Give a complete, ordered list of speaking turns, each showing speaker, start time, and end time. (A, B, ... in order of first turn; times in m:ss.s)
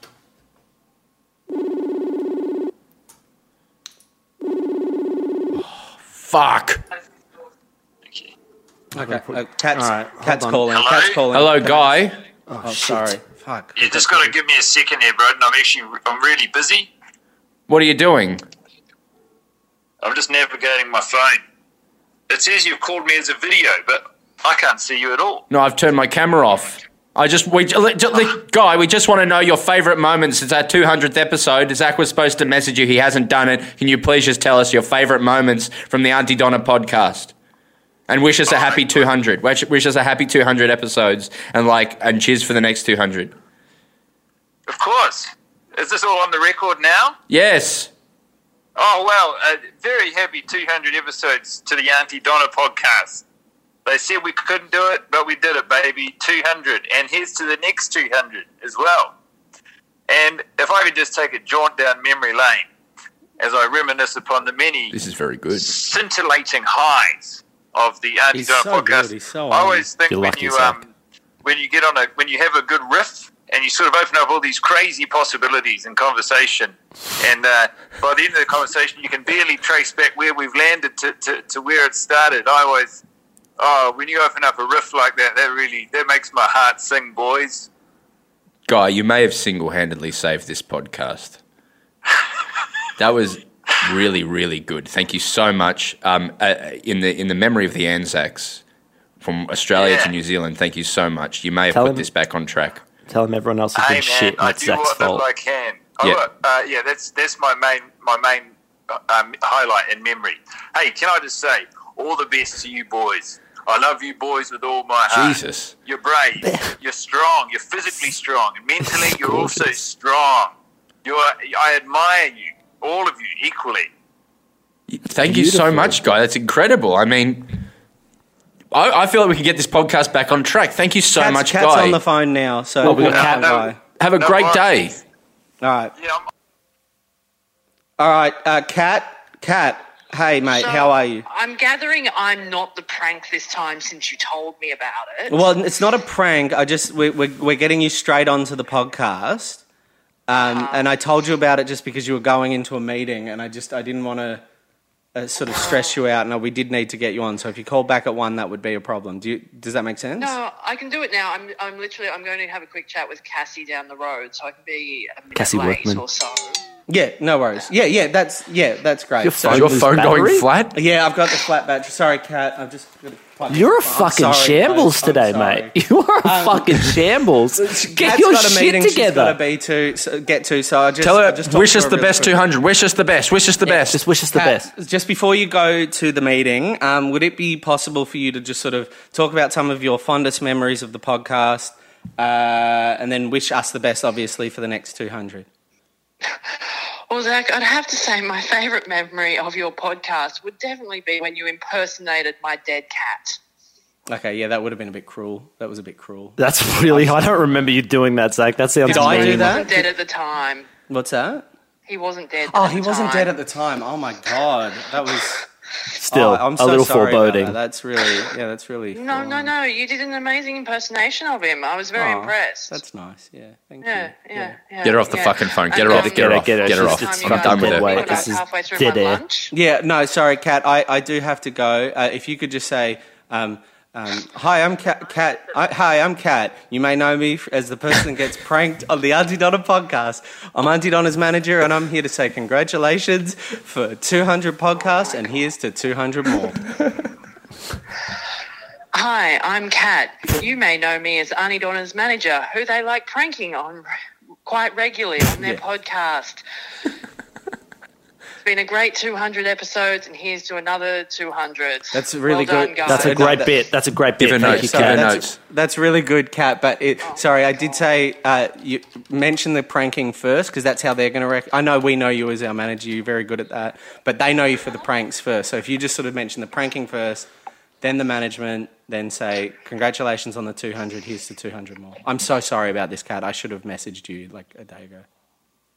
0:05.6-0:06.8 A
0:08.9-0:12.0 B
0:09.0-0:10.6 C
0:10.7-0:11.2 D
0:11.3-0:12.1 A
0:12.5-0:13.2 C
0:12.6-0:14.3 B
0:13.8-0:16.9 D
0:17.7-0:18.4 A
0:20.0-0:21.4 D
0:22.3-0:25.4 D
0:25.5-0:37.3 A
0:38.1-0:43.3 A
0:38.5-0:39.1 D
0:44.7-0:47.2 D
0:47.3-0:47.9 A
0:48.8-0:53.2 D
0:53.8-0:59.1 D
1:00.1-1:02.7 D
1:03.4-1:05.0 D
1:04.9-1:05.7 A
1:05.5-1:10.8 D
1:08.3-1:09.9 B
1:10.1-1:10.8 C
1:11.4-1:23.0 D
1:23.6-1:27.7 D
1:28.7-1:31.4 A
1:33.0-1:38.6 A
1:39.2-1:42.8 A
1:39.7-1:40.1 D
1:41.7-1:42.1 C
1:43.1-1:45.2 C
1:43.8-2:03.9 D
1:55.1-1:55.7 A
1:56.4-1:56.7 C
1:58.8-1:59.7 C
2:04.9-2:07.6 A
2:05.1-2:06.0 C
2:08.7-2:12.0 A
2:11.2-2:13.8 B
2:12.8-2:13.3 A
2:12.8-2:13.5 C
2:13.0-2:14.7 D
2:14.0-2:15.0 A
2:15.6-2:15.9 B
2:16.0-2:16.2 D
2:18.0-2:21.2 B
2:20.5-2:25.4 E
2:25.3-2:29.6 B
2:30.3-2:34.4 B
2:30.3-2:30.9 E
2:35.1-2:40.4 B
2:35.5-2:35.9 E
2:40.2-2:46.6 E
2:45.3-2:46.0 C
2:46.9-2:49.7 B
2:49.2-2:50.5 C
2:49.5-2:50.8 A
2:50.7-2:57.0 B
2:53.5-2:59.4 C
2:57.6-3:02.4 B
3:01.0-3:04.0 A
3:03.8-3:04.7 C
3:04.3-3:15.4 B
3:17.1-3:23.4 E
3:24.1-3:27.3 B
3:26.4-3:29.7 C
3:28.8-3:29.8 B
3:28.9-3:30.7 E
3:30.9-3:31.4 B
3:31.9-3:33.3 E
3:32.5-3:35.4 B
3:36.0-3:37.6 C
3:36.1-3:39.5 B
3:38.9-3:42.8 E
3:42.0-3:44.6 B
3:43.8-3:49.5 E
3:44.8-3:48.1 A
3:45.9-3:49.2 C
3:47.7-3:48.2 B
3:49.5-4:06.6 B
4:04.9-4:05.3 E
4:08.9-4:13.9 E
4:14.4-4:16.4 E
4:15.4-4:15.6 B
4:18.4-4:23.5 E
4:21.9-4:23.6 B
4:22.8-4:25.2 C
4:24.2-4:25.4 A
4:24.4-4:37.3 B
4:27.0-4:27.8 E
4:37.8-4:45.0 B